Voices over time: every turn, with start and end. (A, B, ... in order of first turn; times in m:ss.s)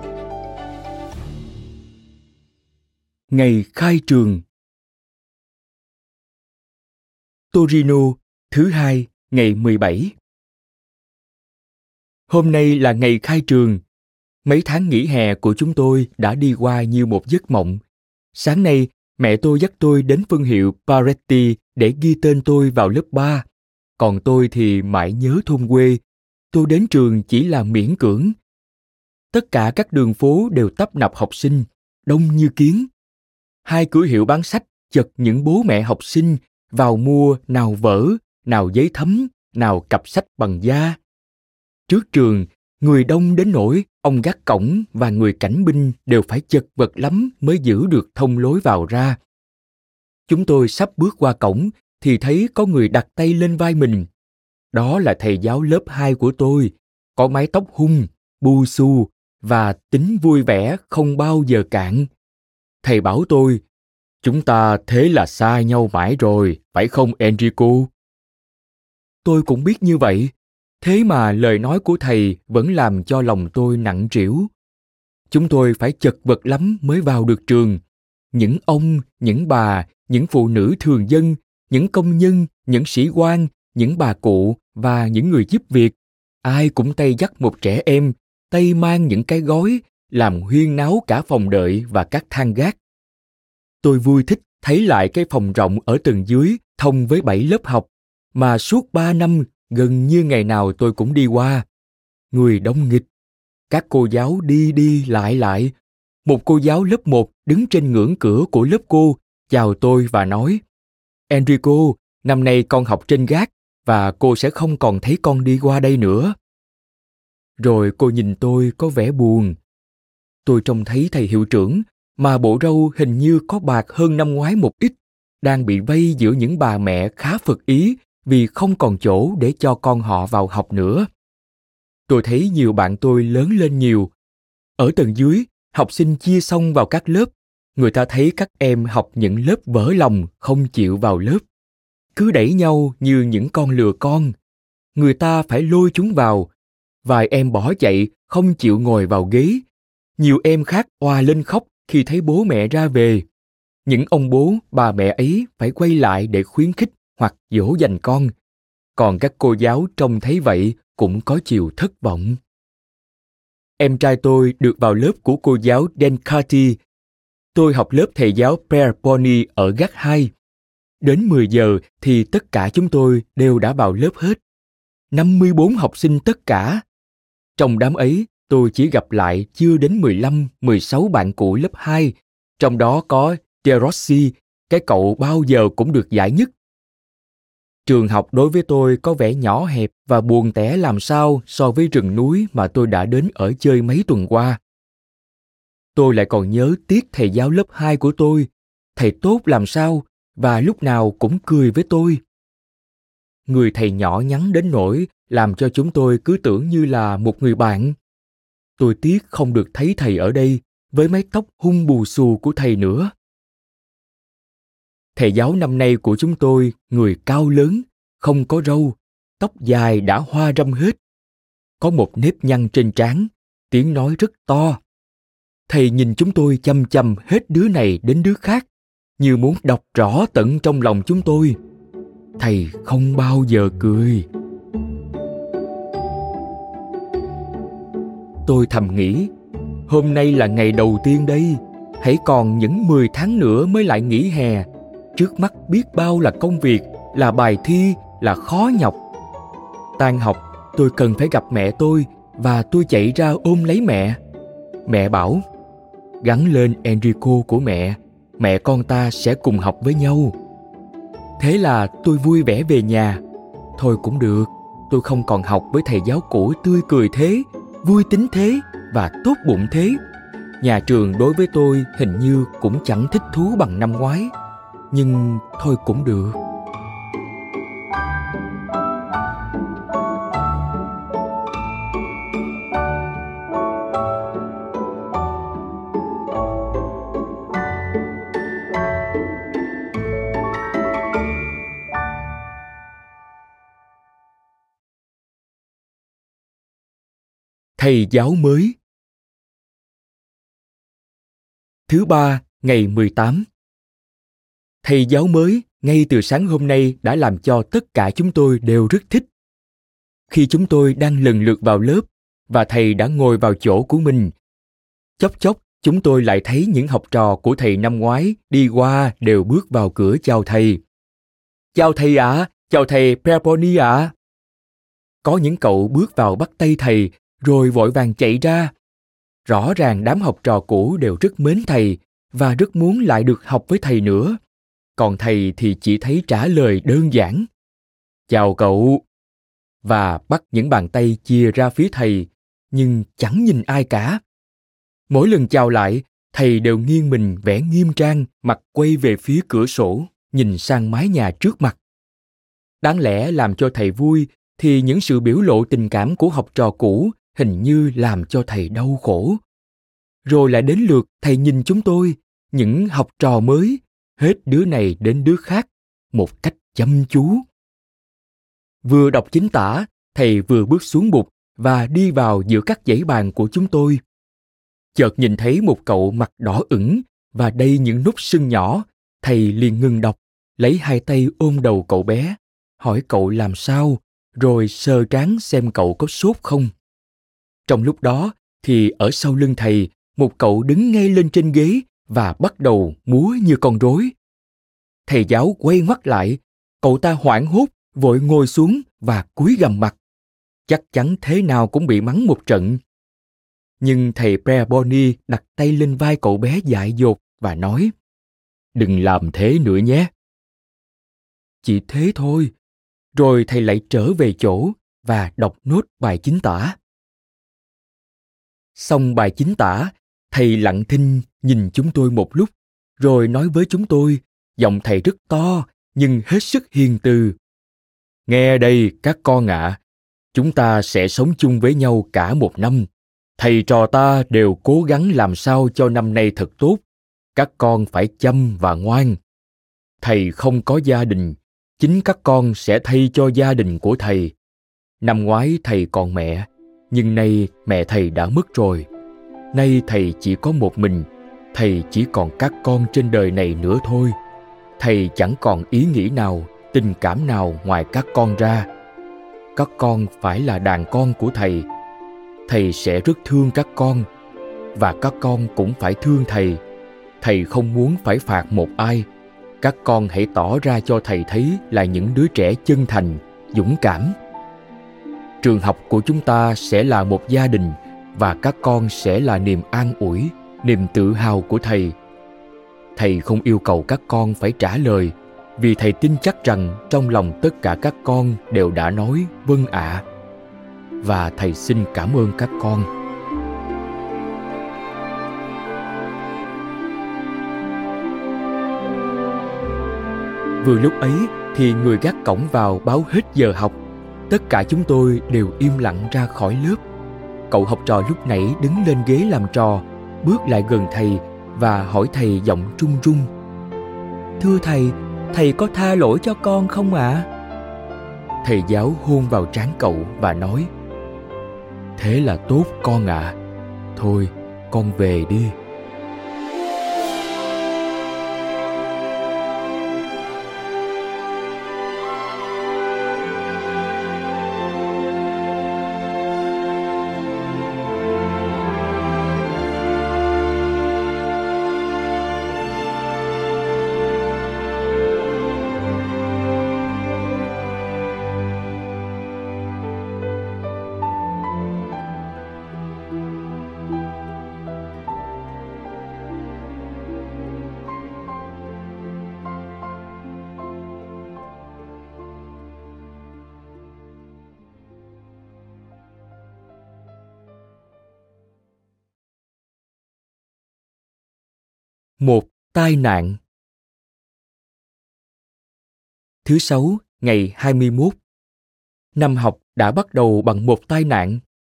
0:03.3-0:04.4 A
0:07.5-0:10.1 A
0:12.3-0:13.8 A
0:14.4-0:17.8 A
0:18.3-0:23.4 A
0:24.0-0:26.0 A
0:26.5-0:28.3 A
0:29.3-0:32.9 A
0:33.6-0:41.0 A
0:41.9-0:49.2 A
0:50.3-0:54.1 A
0:54.7-1:02.1 A
1:02.8-1:03.6 A
1:04.2-1:07.9 A
1:09.2-1:14.5 A
1:15.3-1:17.8 A
1:18.3-1:32.8 A
1:33.8-1:41.6 A
1:42.3-1:43.1 A
1:43.7-1:45.7 A
1:46.2-1:50.6 A
1:51.3-1:56.3 A
1:57.6-1:59.6 A
2:00.4-2:11.1 A
2:12.1-2:14.1 A
2:14.8-2:21.4 A
2:22.1-2:24.3 A
2:24.9-2:26.5 A
2:27.0-2:29.6 A
2:30.2-2:33.2 A
2:33.8-2:38.3 A
2:39.0-2:42.4 A
2:43.8-2:46.8 A
2:47.5-2:50.3 A
2:51.0-2:54.4 A
2:55.1-2:56.8 A
2:57.6-3:06.5 A
3:07.8-3:14.6 A
3:15.9-3:22.2 A
3:23.5-3:28.0 A
3:28.8-3:33.1 A
3:35.1-3:41.0 A
3:41.8-3:44.8 A
3:45.7-3:48.7 A
3:49.2-3:51.6 A
3:52.4-3:54.2 A
3:58.4-3:59.3 A
3:59.9-4:09.0 A
4:10.0-4:14.2 A
4:14.8-4:15.4 A
4:16.2-4:20.3 A
4:21.4-4:23.2 A
4:23.8-4:30.0 A
4:30.6-4:34.3 A
4:34.9-4:36.4 A
4:57.8-4:58.8 A
5:01.9-5:03.4 A
5:04.8-5:09.3 A
5:10.3-5:14.3 A
5:15.2-5:20.8 A
5:21.7-5:24.1 A
5:25.2-5:28.7 A
5:29.4-5:34.4 A
5:35.0-5:37.5 A
5:38.3-5:39.0 A
5:39.8-5:44.2 A
5:45.1-5:51.8 A
5:52.8-5:59.4 A
6:00.2-6:07.4 A
6:08.8-6:14.0 A
6:14.9-6:26.7 A
6:27.7-6:34.1 A
6:35.0-6:40.0 A
6:40.7-6:42.8 A
6:43.8-6:47.9 A
6:48.7-6:50.1 A
6:51.6-6:52.5 A
6:53.1-6:56.8 A
6:58.8-7:07.4 A
7:08.3-7:09.8 A
7:10.3-7:16.8 A
7:17.3-7:19.2 A
7:20.0-7:24.3 A
7:25.0-7:28.9 A
7:29.5-7:34.2 A
7:34.8-7:38.7 A
7:39.5-7:41.7 A
7:42.5-7:44.1 A
7:44.7-7:46.6 A
7:47.2-7:49.1 A
7:49.6-7:54.2 A
7:55.4-8:01.9 A
8:03.0-8:10.0 A
8:11.0-8:12.9 A
8:20.6-8:23.8 A
8:24.3-8:26.8 A
8:27.5-8:33.3 A
8:34.4-8:37.3 A
8:38.4-8:40.7 A
8:42.0-8:43.4 A
8:44.0-8:45.5 A
9:32.2-9:33.4 A
9:36.4-9:38.2 A
9:39.2-9:41.4 A